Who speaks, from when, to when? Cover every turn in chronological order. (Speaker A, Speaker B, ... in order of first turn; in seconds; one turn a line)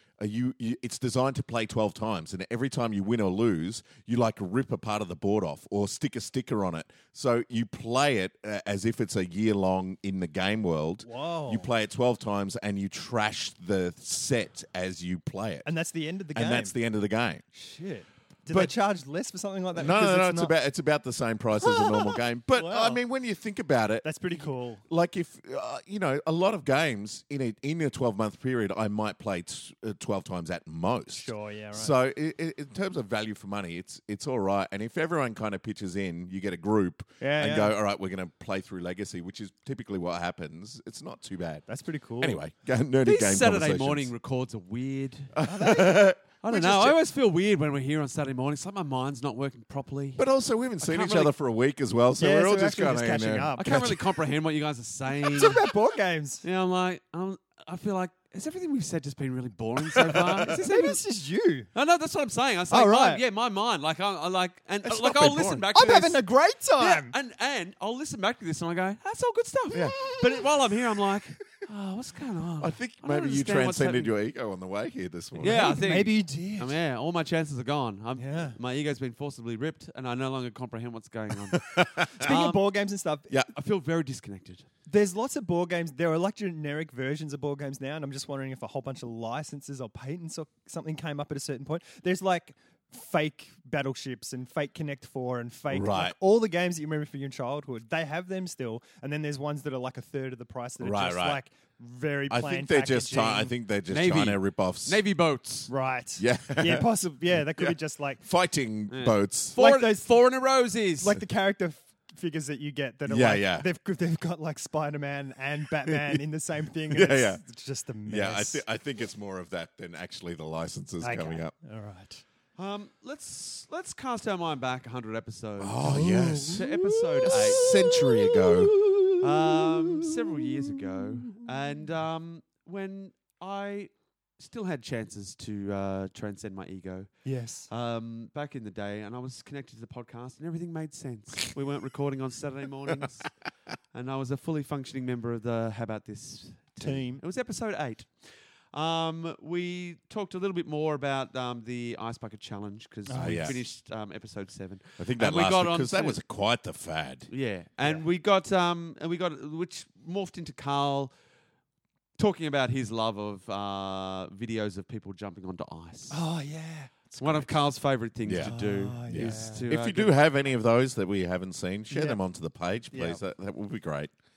Speaker A: 0.2-15.7
Speaker B: 11.0-11.7
Speaker B: 15.6-16.7
Speaker A: 16.3-17.4
Speaker B: 17.5-20.5
Speaker A: 19.7-41.6
Speaker B: 21.6-23.0
Speaker B: 24.0-24.8
Speaker B: 31.1-31.9
Speaker B: 37.2-37.7
Speaker B: 41.7-42.4
Speaker A: 42.2-44.1
Speaker C: 43.0-45.3
Speaker A: 45.3-47.0
Speaker B: 45.5-46.0
Speaker C: 46.4-50.2
Speaker A: 50.2-53.6
Speaker C: 50.8-51.3
Speaker B: 52.2-54.0
Speaker C: 53.6-55.7
Speaker B: 55.2-56.4
Speaker C: 56.4-61.0
Speaker A: 60.1-60.5
Speaker B: 60.5-61.7
Speaker C: 61.7-66.2
Speaker B: 62.7-63.2
Speaker A: 64.8-65.6
Speaker B: 65.7-67.1
Speaker C: 66.8-74.1
Speaker A: 69.7-70.0
Speaker A: 72.6-75.7
Speaker C: 75.4-82.6
Speaker B: 75.4-76.8
Speaker B: 78.2-78.6
Speaker A: 81.5-82.3
Speaker B: 82.2-83.3
Speaker C: 83.5-84.7
Speaker B: 84.9-103.5
Speaker A: 95.7-96.1
Speaker A: 100.8-101.4
Speaker A: 102.3-105.0
Speaker C: 103.9-105.7
Speaker B: 105.7-108.2
Speaker A: 106.2-109.6
Speaker C: 108.9-111.2
Speaker B: 109.5-110.1
Speaker B: 111.0-118.6
Speaker A: 113.1-113.7
Speaker A: 115.9-116.2
Speaker A: 116.9-117.4
Speaker A: 118.1-121.5
Speaker B: 121.0-122.2
Speaker C: 122.6-127.8
Speaker A: 125.6-126.7
Speaker B: 125.8-129.2
Speaker A: 127.2-128.8
Speaker C: 129.1-137.1
Speaker B: 137.2-137.7
Speaker C: 137.7-143.3
Speaker C: 143.9-148.1
Speaker B: 146.8-147.2
Speaker C: 148.7-156.2
Speaker B: 153.1-153.6
Speaker A: 153.1-153.6
Speaker A: 155.0-157.3
Speaker C: 157.3-161.1
Speaker C: 162.2-166.2
Speaker B: 166.1-167.5
Speaker C: 167.2-170.1
Speaker A: 168.2-174.1
Speaker B: 168.4-169.7
Speaker B: 171.9-172.2
Speaker B: 172.9-173.2